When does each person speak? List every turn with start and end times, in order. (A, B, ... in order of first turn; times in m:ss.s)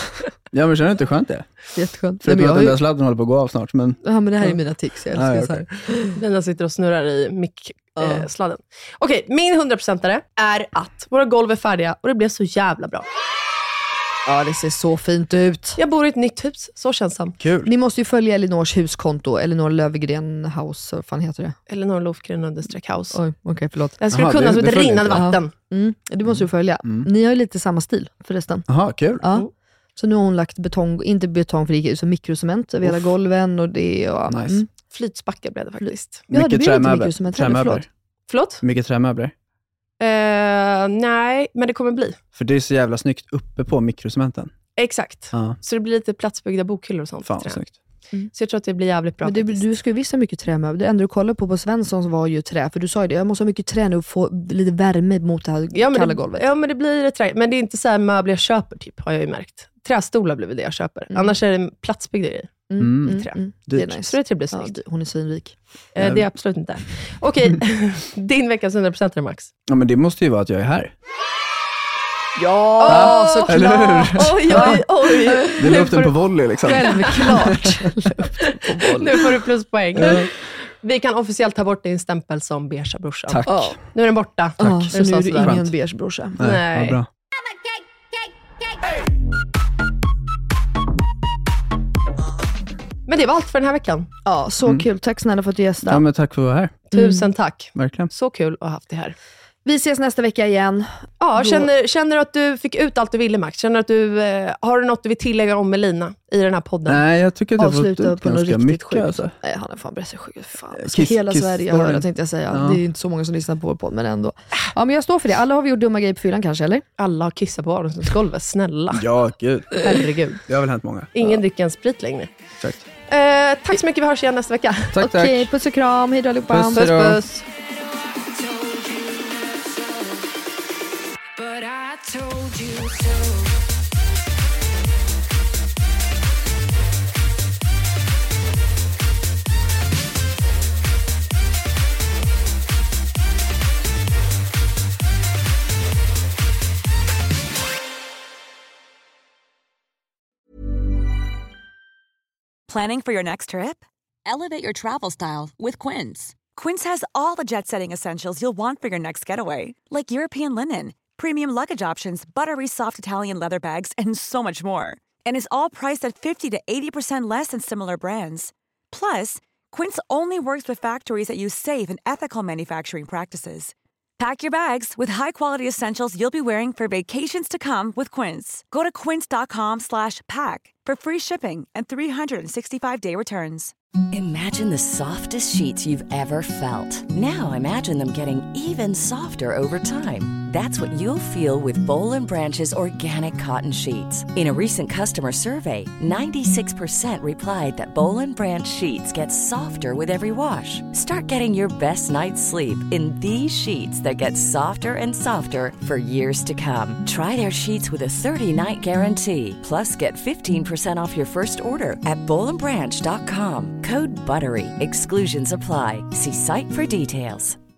0:00.5-0:01.5 A
0:01.7-0:02.8 B
0:02.2-0:04.5 A
0:04.0-0:06.2 B
0:05.1-0:05.6 A
0:06.2-0:13.0 C
0:08.0-0:08.3 B
0:14.2-0:15.8 B
0:15.8-0:17.4 C
0:17.4-0:17.7 A
0:17.6-0:21.6 B
0:21.7-0:23.2 C
0:23.1-0:24.0 B
0:24.0-0:25.5 C
0:24.1-0:25.3 A
0:25.1-0:28.7 B
0:26.3-0:27.1 A
0:28.7-0:29.2 A
0:29.2-0:29.4 B
0:30.0-0:34.7 B
0:32.8-0:33.1 A
0:34.3-0:34.6 A
0:34.9-0:36.2 C
0:35.8-0:37.8 B
0:36.3-0:37.8 A
0:38.3-0:38.6 C
0:38.6-0:39.3 A
0:40.0-0:42.2 C
0:42.3-0:44.5 A
0:44.8-0:47.6 C
0:45.3-0:45.6 A
0:47.2-0:47.7 A
0:48.3-0:49.6 C
0:49.2-0:56.5 B
0:55.7-1:04.8 C
1:01.1-1:01.4 B
1:02.7-1:05.6 B
1:02.8-1:03.8 A
1:05.9-1:09.5 C
1:09.7-1:10.9 A
1:12.4-1:15.9 B
1:12.8-1:17.6 C
1:12.8-1:14.8 A
1:15.6-1:17.8 A
1:16.6-1:19.3 B
1:18.8-1:25.6 C
1:19.9-1:20.3 A
1:23.3-1:23.8 A
1:23.4-1:23.8 B
1:24.6-1:26.4 B
1:24.6-1:25.7 A
1:26.4-1:27.1 A
1:26.4-1:27.0 C
1:33.1-1:34.1 C
1:34.2-1:36.0 B
1:35.8-1:36.8 A
1:36.9-1:39.2 C
1:36.9-1:37.2 B
1:37.8-1:38.1 A
1:39.6-1:41.7 B
1:41.2-1:47.0 C
1:46.9-1:49.3 A
1:47.6-1:56.8 B
1:50.8-1:52.8 A
1:57.0-1:59.1 C
1:58.9-1:59.9 A
1:59.8-2:00.4 C
2:00.5-2:01.4 A
2:01.1-2:02.3 C
2:03.1-2:04.9 C
2:04.9-2:05.5 A
2:05.0-2:07.4 B
2:06.5-2:07.2 A
2:06.8-2:07.4 C
2:32.7-3:03.7 D
3:04.1-3:37.6 E